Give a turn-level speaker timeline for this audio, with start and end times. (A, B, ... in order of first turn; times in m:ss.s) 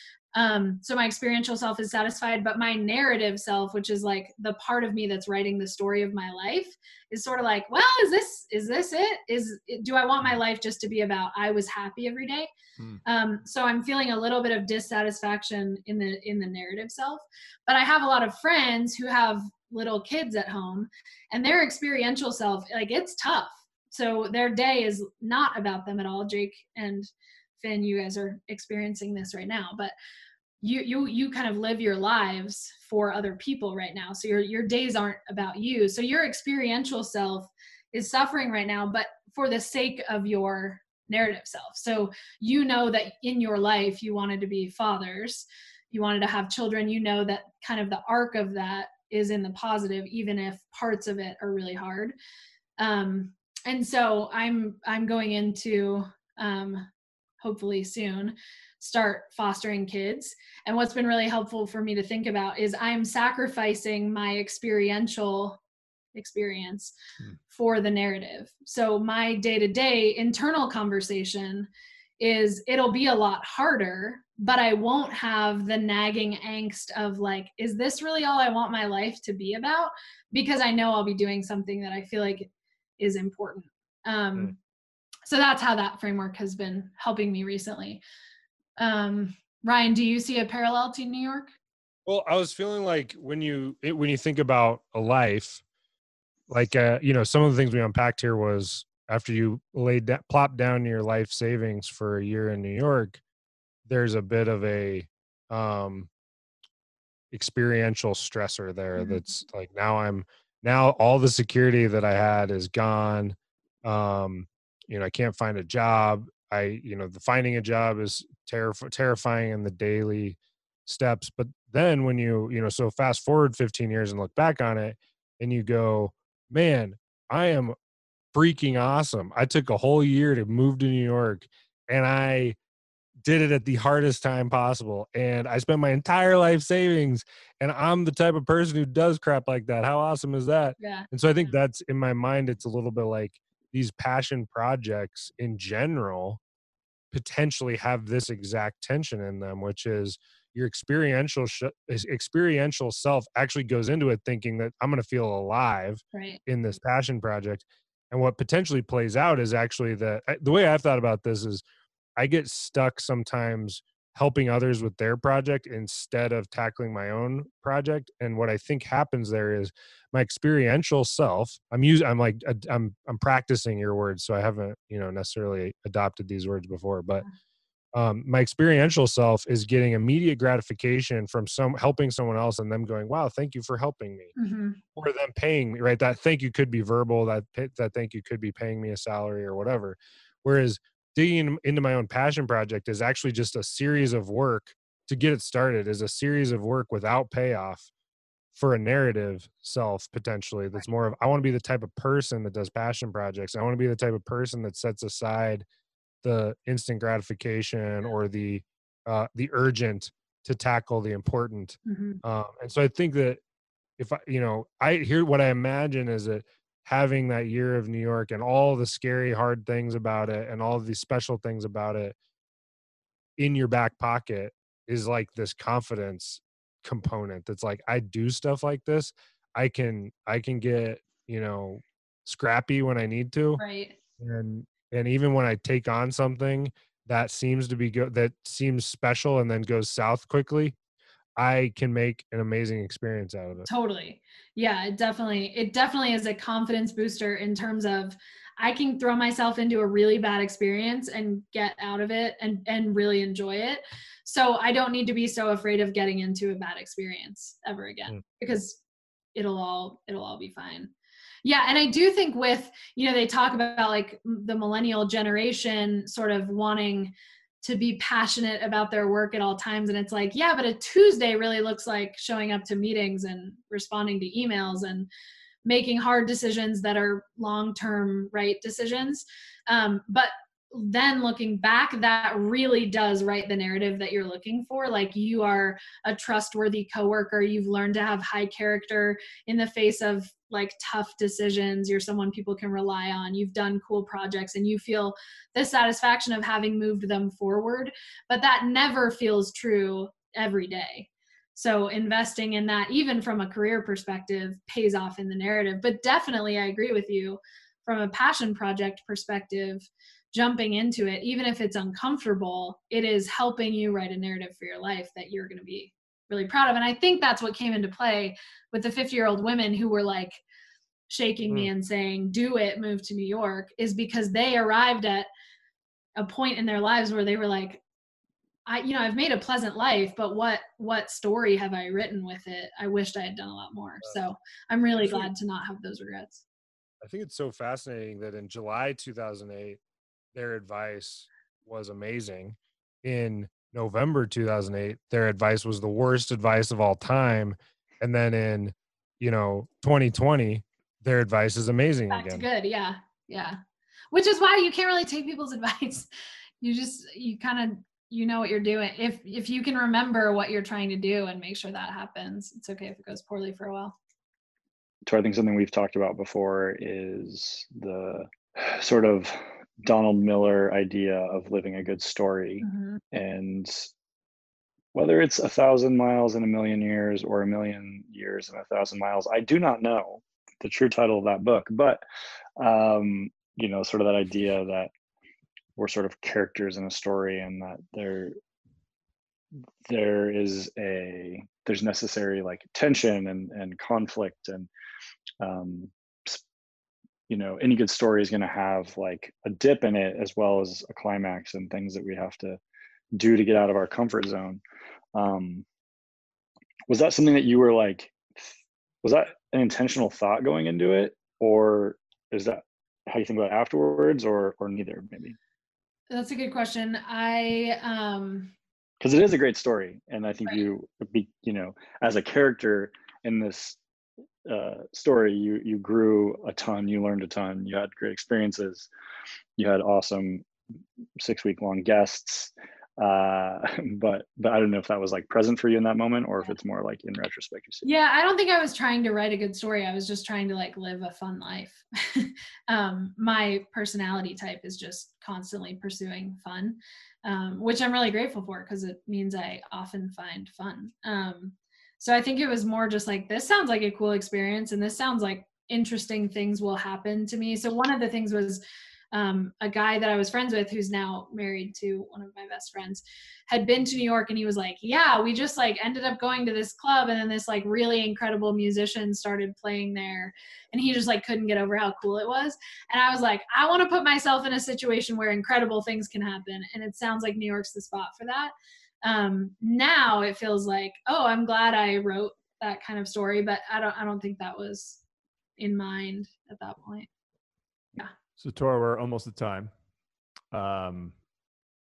0:00.3-0:12.5 A
0:13.0-0:29.9 A
0:30.6-0:52.2 A
0:52.8-0:56.9 A
0:57.4-1:05.6 A
1:06.1-1:06.9 A
1:07.5-1:11.7 A
1:12.2-1:24.6 A
1:25.3-1:28.0 A
1:28.8-1:31.5 A
1:32.1-1:35.6 B
1:36.5-1:43.2 B
1:43.9-1:46.1 B
1:47.3-2:07.8 B
1:49.0-1:49.2 A
2:08.3-2:12.6 B
2:13.2-2:26.4 B
2:20.8-2:21.6 A
2:27.1-2:41.6 B
2:36.1-2:36.4 A
2:42.2-2:57.2 B
2:57.9-3:04.3 B
3:04.4-3:04.8 A
3:05.0-3:17.9 B
3:18.5-3:25.7 B
3:26.2-3:33.4 B
3:31.9-3:32.2 A
3:34.0-3:42.2 B
3:43.4-3:53.6 B
3:53.6-3:54.0 A
3:54.2-4:00.8 B
4:01.4-4:03.7 B
4:03.7-4:18.8 A
4:19.4-4:20.9 A
4:21.4-4:35.1 A
4:35.7-5:20.4 A
5:21.1-5:25.3 A
5:26.2-5:27.8 A
5:28.7-5:36.4 A
5:35.0-5:35.3 B
5:37.0-5:39.8 B
5:40.3-5:52.5 B
5:52.1-5:53.6 A
5:54.1-5:56.1 A
5:56.6-6:04.0 A
6:05.1-6:13.9 C
6:12.6-6:13.0 A
6:14.9-6:22.0 C
6:22.6-6:24.9 C
6:25.8-6:28.4 C
6:29.9-6:34.7 C
6:35.4-6:36.4 C
6:37.3-6:42.6 C
6:43.2-6:44.6 C
6:45.2-6:45.6 C
6:46.9-6:48.4 C
6:49.0-6:55.4 C
6:56.1-6:58.5 A
6:59.0-7:03.8 C
7:04.5-7:08.9 C
7:09.6-7:10.4 C
7:11.2-7:17.9 C
7:17.8-7:38.6 A
7:39.1-8:05.0 A
8:05.6-8:07.1 A
8:08.4-8:09.7 D
8:10.5-8:11.1 D